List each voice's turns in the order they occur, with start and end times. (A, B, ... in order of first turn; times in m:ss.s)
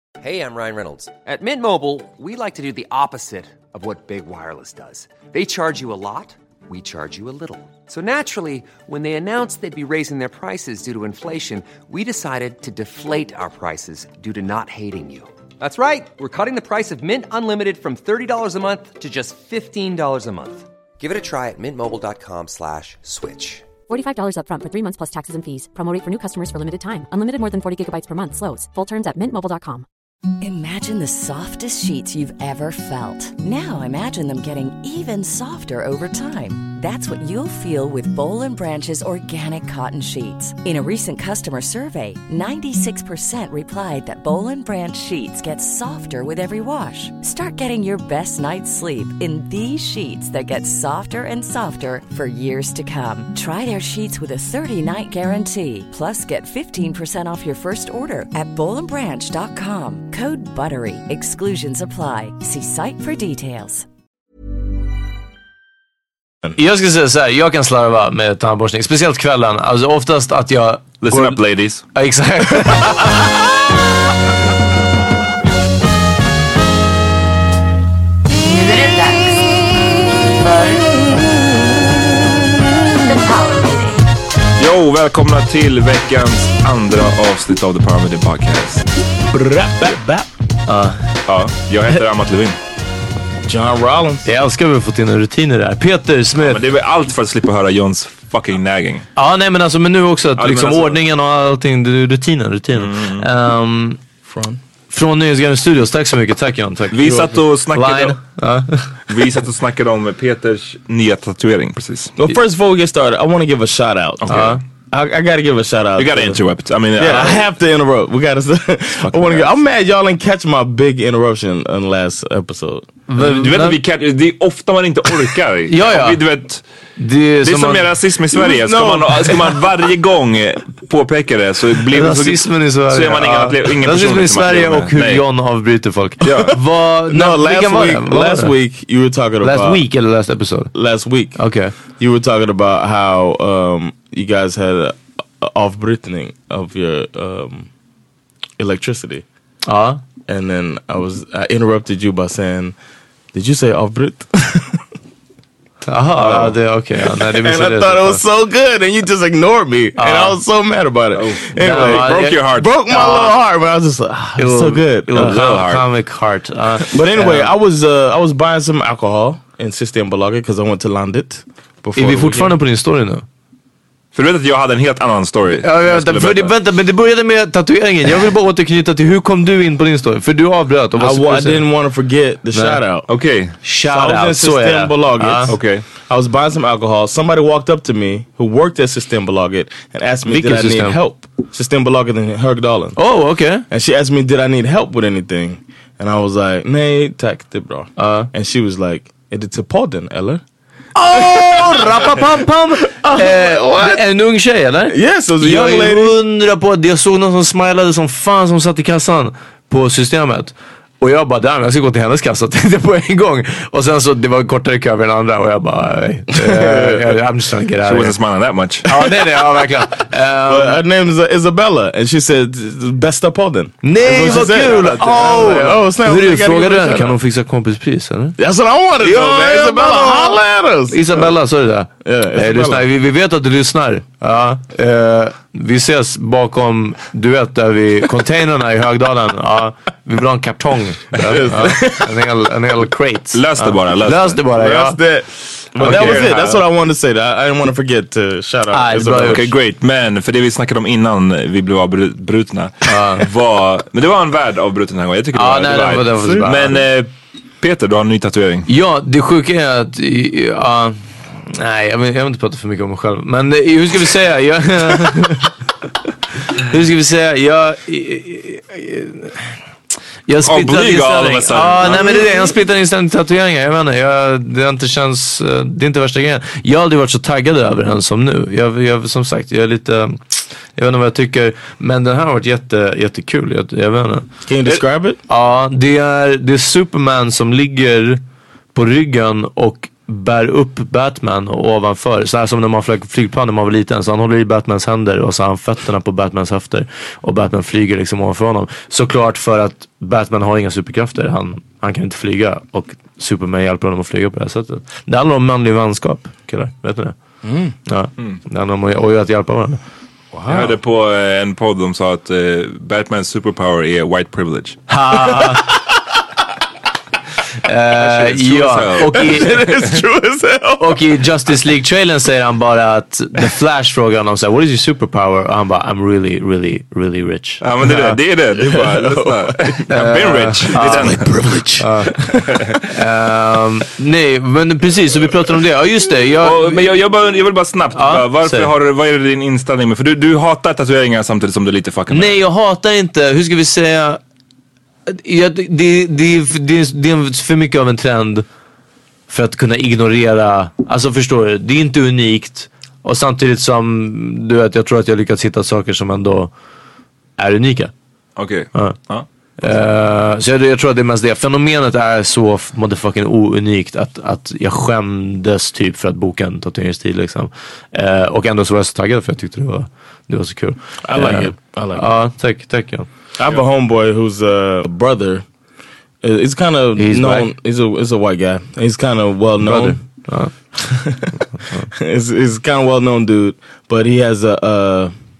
0:00.2-0:23.6 A
0:23.9-0:29.8 B
0:30.4-1:03.9 C
1:06.6-1:11.4 D
1:11.0-1:11.8 E
1:11.9-1:13.3 D
1:18.5-1:19.4 F
1:20.4-1:20.8 F
1:23.1-1:23.9 F
1:24.6-1:28.8 E
1:29.3-1:30.3 G
1:30.7-1:30.9 D
1:31.3-1:32.6 E
1:33.4-1:34.3 G
1:34.2-1:36.6 D
1:36.4-1:39.0 E
1:39.2-1:44.0 D
1:40.4-1:41.0 E
1:42.8-1:43.3 E
1:44.3-1:44.6 G
1:44.9-1:48.9 D
1:46.9-1:48.2 E
1:49.1-1:52.1 E
1:52.2-1:54.3 G
1:54.2-1:54.6 E
1:54.3-1:54.6 D
1:54.9-1:56.4 G
1:56.0-1:57.4 E
1:57.0-2:02.9 G
1:59.0-1:59.5 E
2:03.1-2:03.8 D
2:03.2-2:06.6 E
2:05.7-2:06.2 D
2:07.0-2:07.8 D
2:07.4-2:15.2 E
2:08.4-2:09.6 G
2:11.9-2:18.5 D
2:16.2-2:16.6 E
2:17.1-2:19.8 G
2:19.4-2:20.7 D
2:20.7-2:21.4 G
2:21.4-2:21.7 D
2:22.0-2:27.7 G
2:28.6-2:29.2 G
2:29.6-2:30.0 D
2:30.3-2:32.8 G
2:33.3-2:34.8 G
2:35.9-2:38.2 D
2:36.2-2:45.6 G
2:40.0-2:40.4 D
2:41.1-2:42.7 E
2:41.6-2:43.3 D
2:44.4-2:47.5 D
2:45.2-2:45.8 E
2:46.8-2:52.6 G
2:51.9-2:53.2 D
2:54.1-2:56.5 E
2:55.6-3:01.6 D
3:01.0-3:03.1 G
3:02.5-3:02.8 D
3:03.1-3:03.5 E
3:03.6-3:05.5 D
3:03.9-3:13.0 G
3:05.5-3:05.8 E
3:10.3-3:11.0 D
3:13.0-3:13.6 D
3:13.7-3:20.4 G
3:18.0-3:18.3 D
3:20.9-3:38.2 D
3:21.1-3:22.2 G
3:22.9-3:24.0 G
3:24.9-3:26.1 G
3:36.4-3:37.1 G
3:37.8-3:38.9 E
3:38.8-3:40.8 D
3:38.9-3:39.6 G
3:40.4-3:47.2 G
3:43.8-3:48.4 D
3:44.5-3:45.6 E
3:48.4-3:51.3 G
3:49.0-3:50.0 E
3:49.9-3:50.3 D
3:50.9-4:05.0 D
3:52.0-3:52.9 G
4:01.4-4:02.1 G
4:03.3-4:04.4 E
4:04.5-4:09.5 G
4:05.8-4:06.6 E
4:05.8-4:06.2 D
4:08.7-4:09.4 D
4:09.3-4:17.1 E
4:12.8-4:13.2 D
4:15.3-4:16.7 D
4:16.2-4:16.5 G
4:17.6-4:18.7 E
4:18.7-4:25.5 D
4:26.5-4:29.4 D
4:30.3-4:40.2 D
4:30.4-4:32.5 E
4:40.8-4:44.3 D
4:44.4-4:45.2 G
4:45.3-4:48.2 D
4:48.7-5:07.2 D
5:07.4-5:07.7 G
5:07.8-5:09.8 D
5:10.3-5:10.8 G
5:10.5-5:14.8 E
5:14.9-5:15.7 D
5:15.4-5:15.9 G
5:17.6-5:19.6 D
5:18.0-5:19.3 E
5:19.1-5:21.0 G
5:20.8-5:28.2 D
5:27.6-5:31.4 E
5:28.6-5:29.6 G
5:29.9-5:37.0 D
5:30.8-5:32.4 G
5:32.5-5:32.8 E
5:36.4-5:42.4 E
5:37.9-5:38.7 D
5:42.1-5:44.2 D
5:45.1-5:48.4 D
5:49.3-5:56.5 D
5:57.4-5:57.9 D
5:58.4-5:59.8 E
5:59.6-6:13.1 D
6:11.0-6:12.1 G
6:13.4-6:15.4 G
6:16.2-6:20.0 G
6:17.0-6:17.5 D
6:19.6-6:20.5 D
6:20.8-6:25.1 G